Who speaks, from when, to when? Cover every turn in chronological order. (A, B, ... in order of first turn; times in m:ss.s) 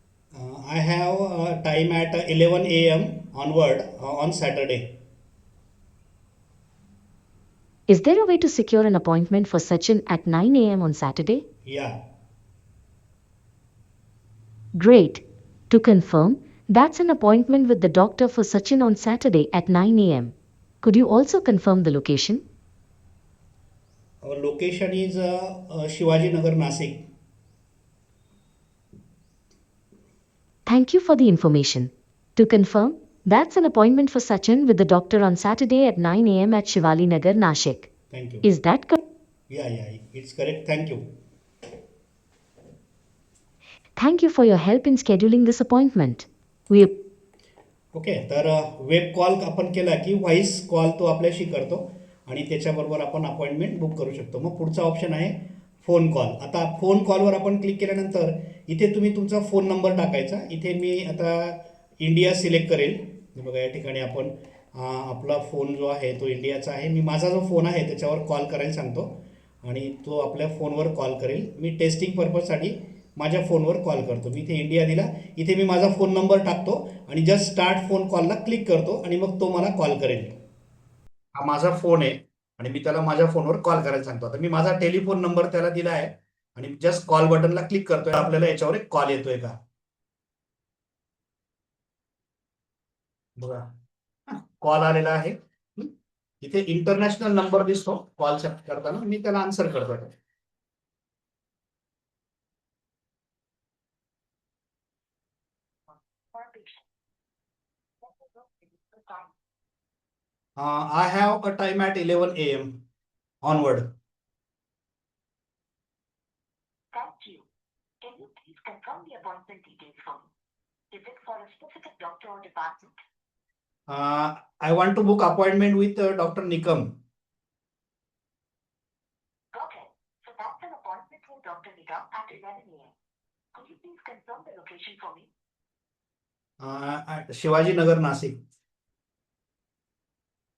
0:00.3-0:05.0 A
0:07.9-0:11.4 B
0:11.6-0:12.0 A
0:14.8-0:22.4 B
0:24.2-0:27.1 A
0:30.6-0:37.9 B
0:38.1-0:38.4 A
0:38.4-0:39.0 B
0:39.5-0:41.0 A
0:44.0-0:46.9 B
0:47.9-1:09.1 A
1:09.6-1:20.4 A
1:21.3-1:29.5 A
1:33.4-1:33.7 A
1:34.3-1:40.1 A
1:45.9-1:46.8 C
1:48.0-1:49.3 C
1:50.6-1:52.8 A
1:53.4-1:53.9 A
1:56.9-1:57.5 C
1:58.0-2:00.3 C
2:00.9-2:02.9 C
2:03.9-2:07.0 A
2:09.5-2:12.9 C
2:13.5-2:15.3 C
2:16.6-2:18.4 A